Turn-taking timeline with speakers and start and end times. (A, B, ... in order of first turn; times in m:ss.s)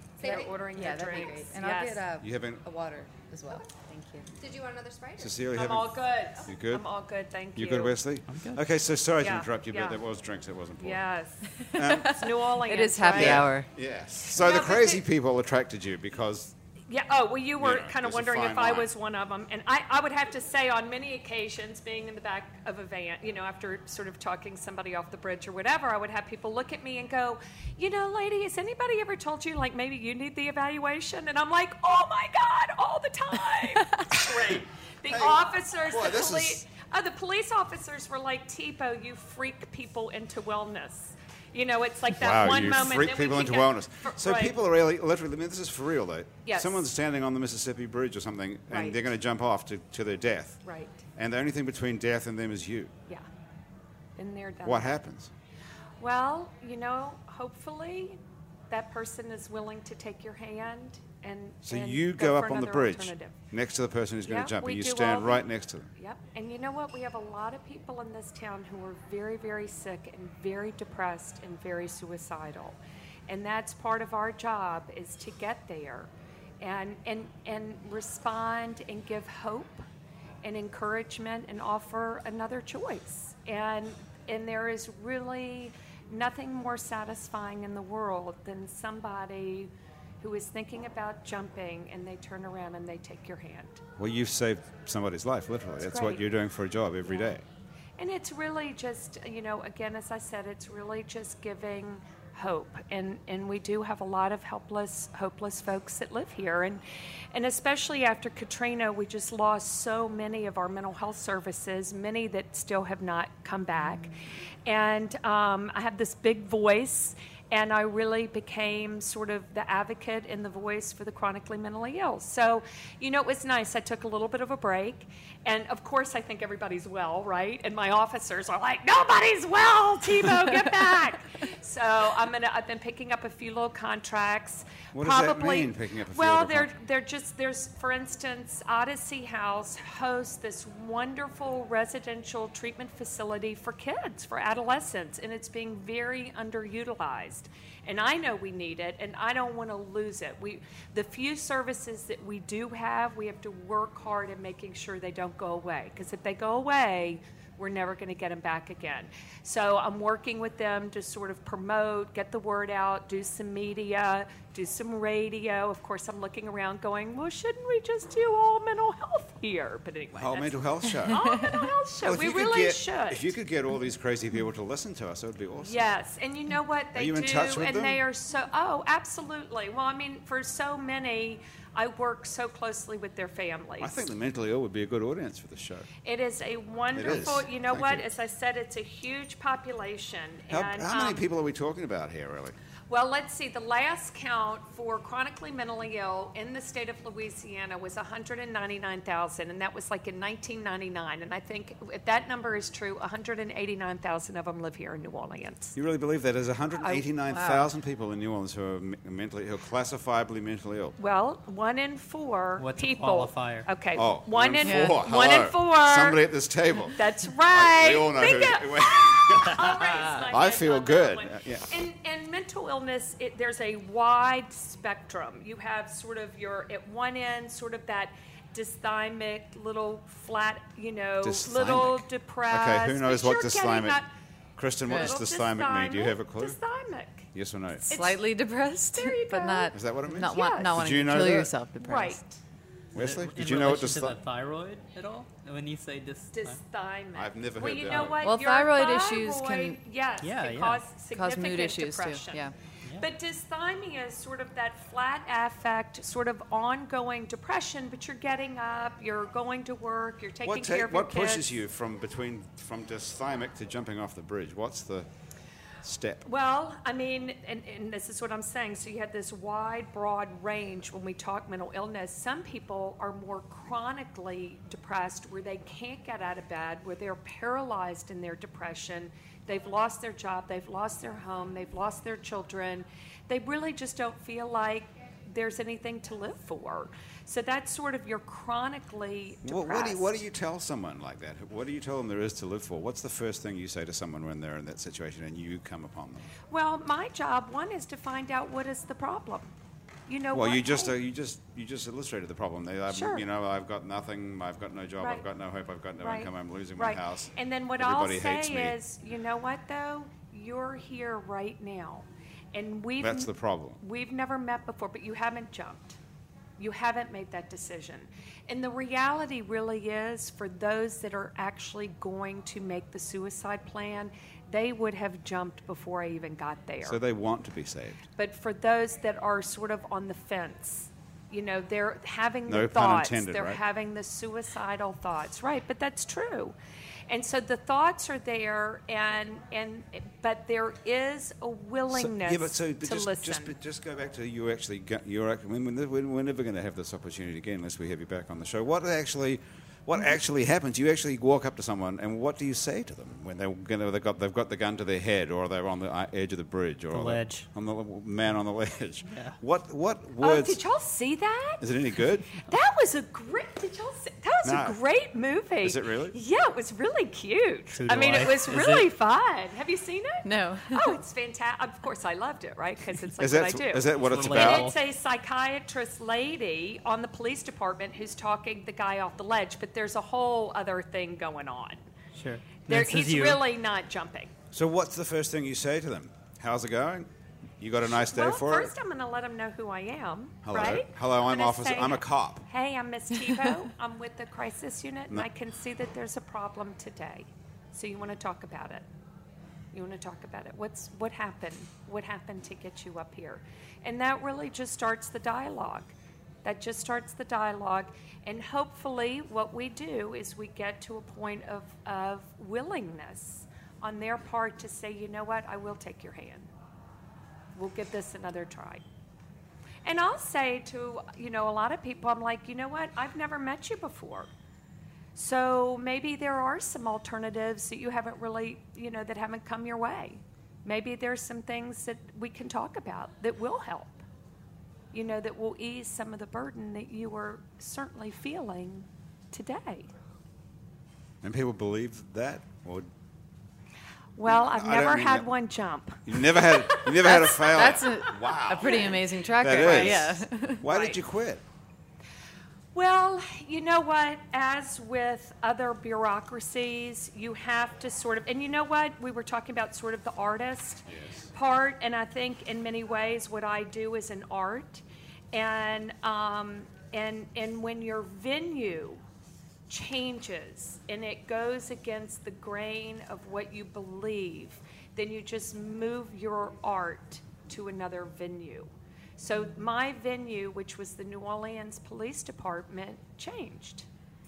0:00.2-0:01.2 A
0:00.2-0:02.0 B
0:00.7-0:04.3 C
0:02.2-0:02.6 D
0:04.4-0:05.4 A
0:05.2-0:06.8 D
0:05.5-0:08.0 B
0:07.6-0:11.0 D
0:08.3-0:08.6 E
0:09.2-0:10.0 B
0:10.8-0:13.5 B
0:11.6-0:13.7 C
0:11.7-0:12.2 D
0:13.1-0:16.5 D
0:14.3-0:15.0 B
0:16.9-0:44.6 B
0:17.6-0:18.9 D
0:35.1-0:36.6 D
0:42.1-0:50.6 D
0:46.4-0:46.9 B
0:48.7-0:49.0 B
0:50.6-0:51.0 B
0:51.2-0:52.9 D
0:54.2-0:55.0 B
0:54.6-0:55.3 D
0:56.0-0:58.2 B
0:58.7-1:03.4 B
1:01.6-1:05.9 D
1:04.3-1:05.5 B
1:06.0-1:12.8 B
1:13.3-1:16.1 B
1:16.6-1:19.8 B
1:20.4-1:33.8 B
1:34.0-1:37.4 D
1:35.8-1:36.2 B
1:37.1-1:37.4 B
1:38.0-1:46.8 B
1:47.3-1:54.1 B
1:54.7-2:53.3 B
2:14.9-2:16.7 D
2:50.1-2:51.3 D
2:51.1-2:51.6 C
2:52.0-2:55.9 D
2:55.6-3:04.0 B
2:57.0-2:58.0 D
3:03.8-3:05.9 D
3:06.0-3:11.2 B
3:06.9-3:08.1 D
3:10.5-3:12.6 D
3:12.9-3:25.8 B
3:25.8-3:31.0 D
3:26.8-3:27.0 B
3:27.3-3:27.7 C
3:31.0-3:36.2 B
3:32.6-3:33.7 E
3:34.0-3:37.0 D
3:34.6-3:35.0 C
3:36.9-3:54.1 B
3:37.5-3:41.7 D
3:51.2-3:54.0 D
3:54.6-3:56.6 D
3:54.9-3:55.2 C
3:54.9-3:57.3 B
3:57.3-3:57.9 D
3:57.8-4:02.2 C
3:57.9-3:58.2 B
3:59.0-4:00.8 B
3:59.7-4:01.5 D
4:01.8-4:02.4 B
4:02.9-4:04.2 D
4:02.9-4:06.6 E
4:06.3-4:12.4 B
4:07.2-4:08.2 D
4:08.2-4:09.8 C
4:10.2-4:10.8 E
4:11.1-4:12.5 C
4:13.0-4:21.5 B
4:20.4-4:25.1 D
4:25.8-4:26.3 D
4:26.2-4:50.2 B
4:49.4-4:56.3 D
4:56.5-4:59.5 B
5:00.1-5:01.0 B
5:00.3-5:08.8 D
5:02.9-5:03.2 B
5:05.0-5:05.3 B
5:06.0-5:16.0 B
5:13.0-5:13.8 D
5:16.6-5:27.0 B
5:26.8-5:28.0 D
5:28.2-5:36.6 B
5:32.5-5:33.6 D
5:37.1-5:43.5 B
5:41.9-6:00.6 D
5:56.9-5:57.5 E
5:59.1-5:59.4 E
6:00.2-6:01.6 B
6:01.6-6:02.4 D
6:02.4-6:21.8 B
6:04.4-6:04.8 D
6:05.6-6:06.2 D
6:07.7-6:08.9 E
6:10.2-6:11.0 C
6:13.2-6:14.7 D
6:14.0-6:14.8 E
6:22.2-6:23.4 E
6:22.7-6:24.3 B
6:24.5-6:27.1 D
6:27.6-6:28.7 D
6:27.9-6:38.8 B
6:30.4-6:32.5 D
6:39.7-6:56.5 B
6:57.6-6:58.8 B
6:59.8-7:04.3 B
7:05.2-7:14.0 B
7:14.9-7:19.9 B
7:21.2-7:22.9 D
7:24.2-7:28.0 B
7:24.3-7:25.3 D
7:26.1-7:31.4 D
7:27.0-7:30.6 C
7:28.6-7:30.1 B
7:30.6-7:31.0 B
7:32.7-7:49.0 B
7:40.9-7:41.3 D
7:49.7-8:03.9 B